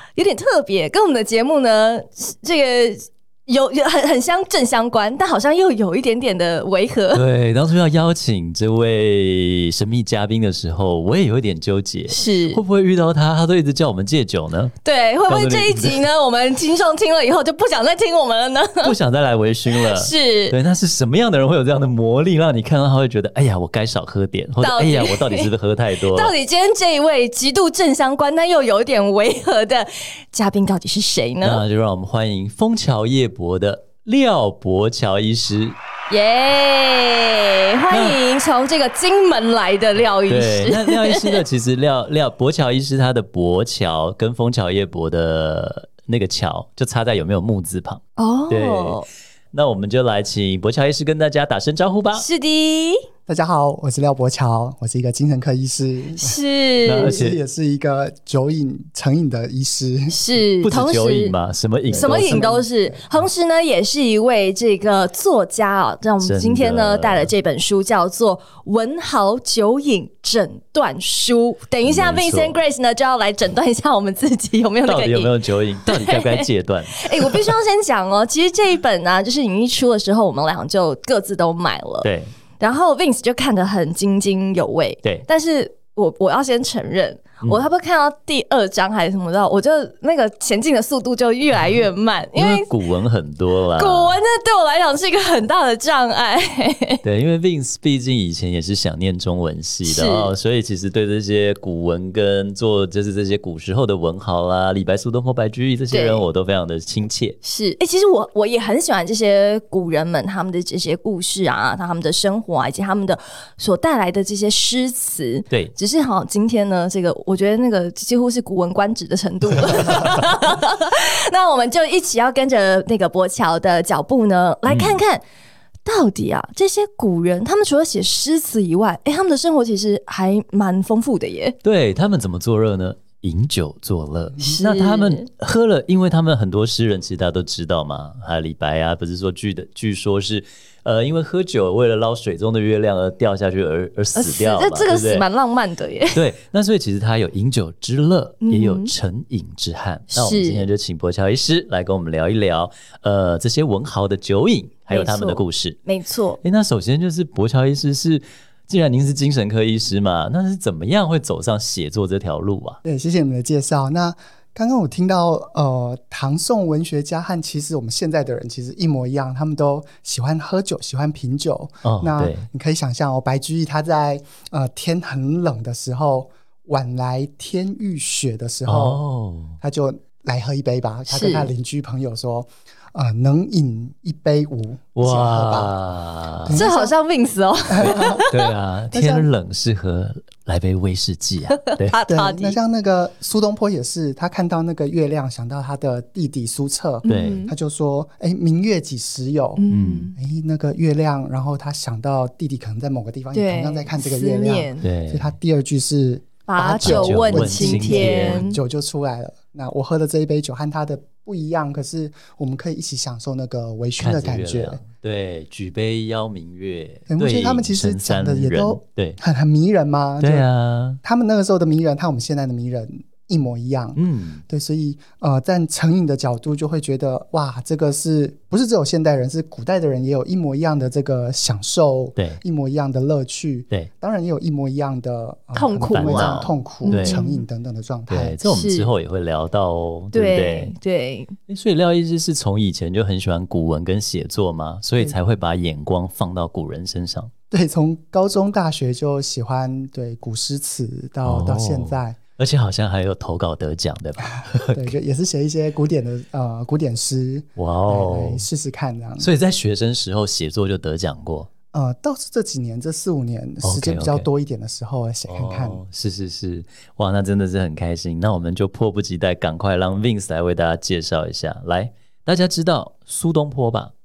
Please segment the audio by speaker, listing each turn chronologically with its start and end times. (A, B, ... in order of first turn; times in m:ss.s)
0:00.2-0:07.2 A
0:07.1-0:14.8 B
0:12.1-0:12.6 A
0:14.8-0:18.9 A
0:15.3-0:16.0 B
0:18.8-0:26.3 B
0:19.7-0:20.6 A
0:24.6-0:25.5 A
0:26.1-0:31.6 A
0:31.4-0:35.8 B
0:36.1-0:41.4 A
0:37.9-0:38.2 B
0:40.3-0:49.0 B
0:48.2-0:49.1 A
0:49.5-0:52.3 B
0:52.2-0:53.0 A
0:53.3-1:00.2 C
0:56.2-0:57.2 A
0:56.8-0:57.4 B
1:00.1-1:01.4 A
1:00.6-1:02.5 B
1:01.9-1:03.2 C
1:01.9-1:22.1 A
1:06.2-1:07.3 B
1:11.9-1:12.6 B
1:14.9-1:17.6 B
1:22.0-1:22.3 B
1:22.6-1:32.7 A
1:32.4-1:34.2 B
1:33.8-1:37.0 A
1:37.0-1:47.4 B
1:39.9-1:40.3 A
1:45.9-1:46.2 A
1:47.4-2:05.2 A
2:04.7-2:05.0 B
2:05.8-2:11.6 A
2:11.6-2:25.2 B
2:14.4-2:15.3 A
2:24.2-2:26.2 A
2:26.1-2:35.8 B
2:28.4-2:28.9 A
2:30.1-2:30.7 A
2:34.9-2:36.4 A
2:36.4-2:42.8 B
2:42.8-2:59.0 C
2:51.8-2:52.5 B
2:58.7-2:59.6 B
2:59.6-3:05.7 C
3:01.1-3:01.5 A
3:05.0-3:06.7 B
3:06.4-3:06.9 C
3:06.5-3:08.5 A
3:07.7-3:08.2 C
3:08.2-3:12.0 B
3:08.9-3:09.3 C
3:11.6-3:12.6 A
3:12.1-3:19.6 C
3:17.0-3:17.6 A
3:17.1-3:17.4 B
3:19.6-3:20.1 A
3:19.7-3:20.1 B
3:20.2-3:34.8 C
3:23.3-3:24.8 A
3:24.8-3:25.3 B
3:26.5-3:28.6 A
3:26.8-3:28.5 B
3:34.0-3:39.2 B
3:37.1-3:40.5 C
3:40.2-3:41.0 B
3:41.0-3:58.4 C
3:44.0-3:44.4 B
3:52.2-3:52.4 B
3:55.5-3:57.4 A
3:55.9-3:57.2 B
3:58.1-4:00.7 B
3:58.4-3:58.9 A
4:00.1-4:01.4 A
4:01.5-4:07.3 B
4:07.5-4:12.2 C
4:11.2-4:14.9 B
4:14.7-4:19.3 C
4:17.6-4:18.4 B
4:19.2-4:21.5 B
4:21.7-4:25.8 C
4:23.6-4:24.3 B
4:25.3-4:33.9 B